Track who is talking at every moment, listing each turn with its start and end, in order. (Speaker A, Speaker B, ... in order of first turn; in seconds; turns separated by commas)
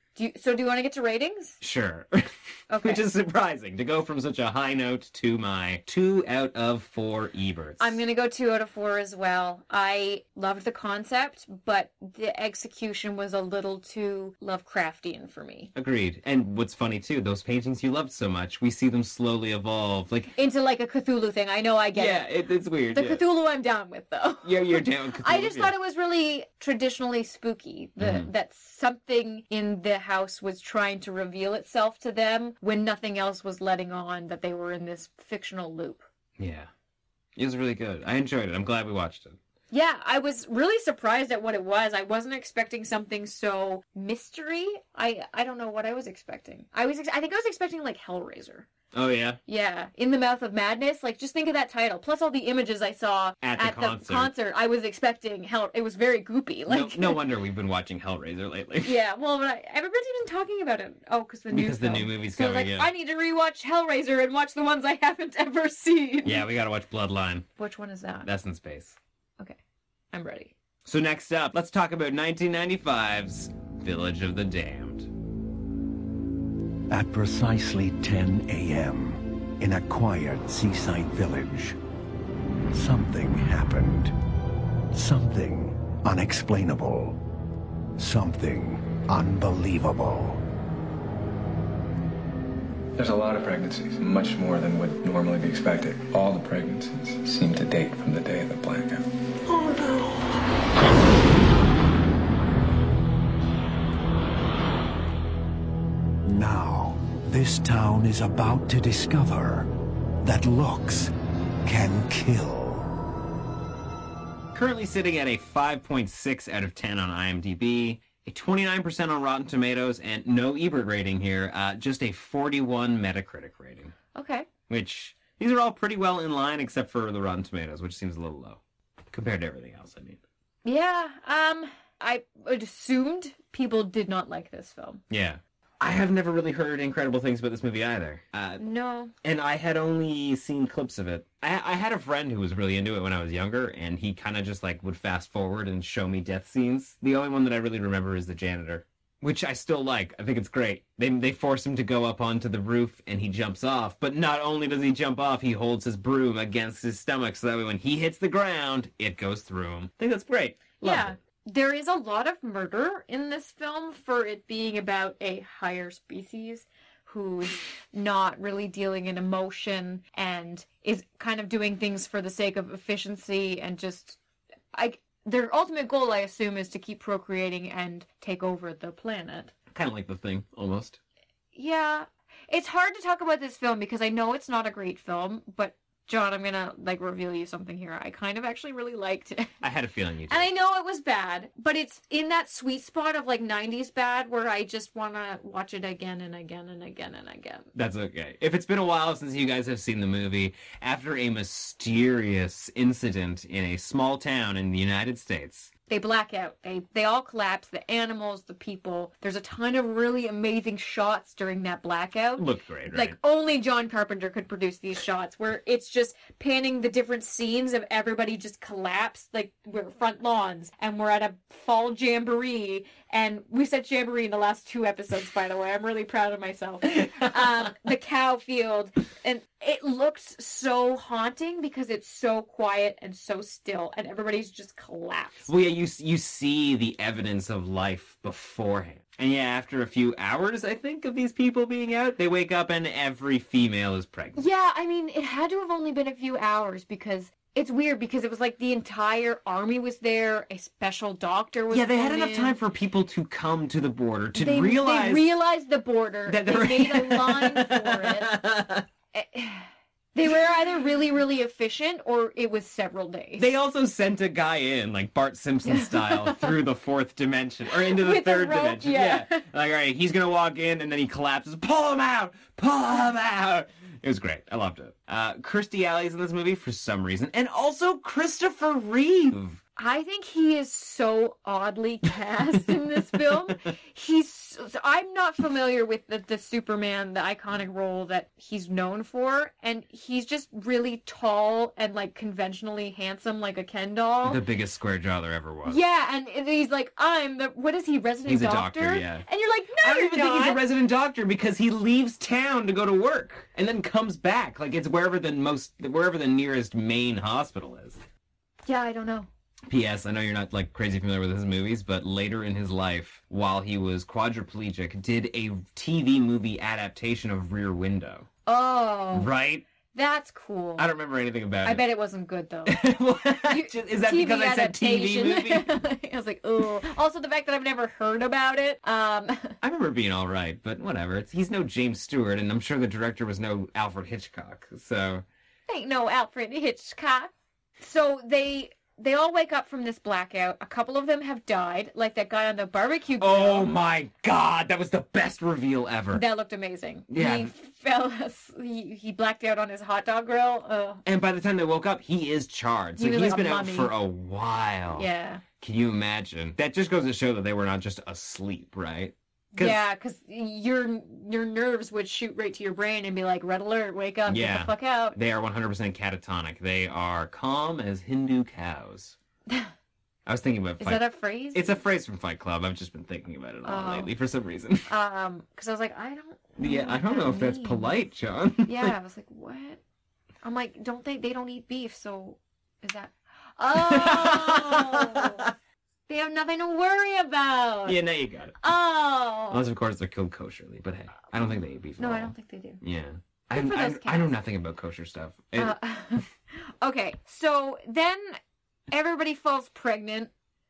Speaker A: 0.1-1.6, Speaker B: 1.6-8.0, Speaker A: 2.7-3.1, Speaker A: 7.8-15.7, Speaker B: 15.7-20.3, Speaker A: 20.3-22.3, Speaker B: 21.9-23.2, Speaker A: 22.9-36.0, Speaker B: 24.4-25.7, Speaker B: 28.0-28.3, Speaker B: 36.4-36.7, Speaker B: 37.4-39.4, Speaker A: 39.7-48.7, Speaker B: 48.9-49.4, Speaker A: 49.5-57.2, Speaker B: 53.4-54.3, Speaker B: 56.7-59.0, Speaker A: 58.8-66.5, Speaker B: 61.5-62.9, Speaker B: 66.2-67.5, Speaker A: 67.6-68.3, Speaker B: 68.2-69.0, Speaker A: 70.1-70.5, Speaker B: 70.8-75.1, Speaker C: 76.9-81.8, Speaker C: 82.7-84.1, Speaker C: 84.9-87.2, Speaker C: 88.0-90.4, Speaker D: 93.0-99.1, Speaker C: 99.5-100.0, Speaker C: 106.3-109.7, Speaker C: 110.2-111.1, Speaker C: 111.6-112.9, Speaker B: 114.5-123.9, Speaker A: 124.1-124.5, Speaker B: 124.7-128.6, Speaker B: 129.1-130.2, Speaker A: 130.6-135.0, Speaker B: 135.1-138.6, Speaker A: 138.6-139.1, Speaker B: 139.2-161.2, Speaker A: 160.8-174.2, Speaker A: 174.7-179.5, Speaker B: 179.7-181.0, Speaker A: 181.5-189.5, Speaker B: 189.6-190.5, Speaker A: 190.3-197.7, Speaker B: 197.7-205.7, Speaker A: 205.9-235.5, Speaker B: 212.4-213.2, Speaker B: 227.0-227.4, Speaker B: 235.4-244.4, Speaker A: 244.3-252.6, Speaker B: 251.7-255.3, Speaker A: 254.3-258.4, Speaker B: 256.3-258.9, Speaker A: 259.1-263.5, Speaker B: 263.4-279.6, Speaker A: 265.6-266.5, Speaker A: 267.7-269.4, Speaker A: 279.8-294.4, Speaker B: 294.2-295.8, Speaker A: 295.6-300.6, Speaker B: 298.2-299.2, Speaker B: 299.8-308.0, Speaker A: 308.6-309.3, Speaker B: 309.7-318.3, Speaker A: 318.4-319.3, Speaker B: 319.1-319.6, Speaker A: 319.9-320.9, Speaker B: 320.8-321.9, Speaker A: 321.6-322.9, Speaker B: 322.7-325.7, Speaker A: 323.4-329.6, Speaker B: 329.6-335.2, Speaker A: 335.7-343.7, Speaker B: 343.2-346.2, Speaker A: 346.1-351.0, Speaker B: 347.1-347.5, Speaker B: 351.0-355.1, Speaker A: 353.0-353.9, Speaker A: 354.9-355.4, Speaker B: 355.6-359.8, Speaker A: 359.5-365.2, Speaker B: 364.3-369.1, Speaker B: 370.2-374.9, Speaker A: 370.8-371.8, Speaker A: 373.6-374.1, Speaker A: 374.9-377.9, Speaker B: 376.6-378.9, Speaker A: 378.6-379.8, Speaker A: 380.4-385.5, Speaker B: 383.7-385.5, Speaker A: 386.1-388.0, Speaker B: 387.9-388.6, Speaker A: 388.6-389.6, Speaker B: 389.5-395.8, Speaker A: 392.0-392.8, Speaker A: 393.5-394.3, Speaker A: 395.6-398.4, Speaker A: 398.9-400.3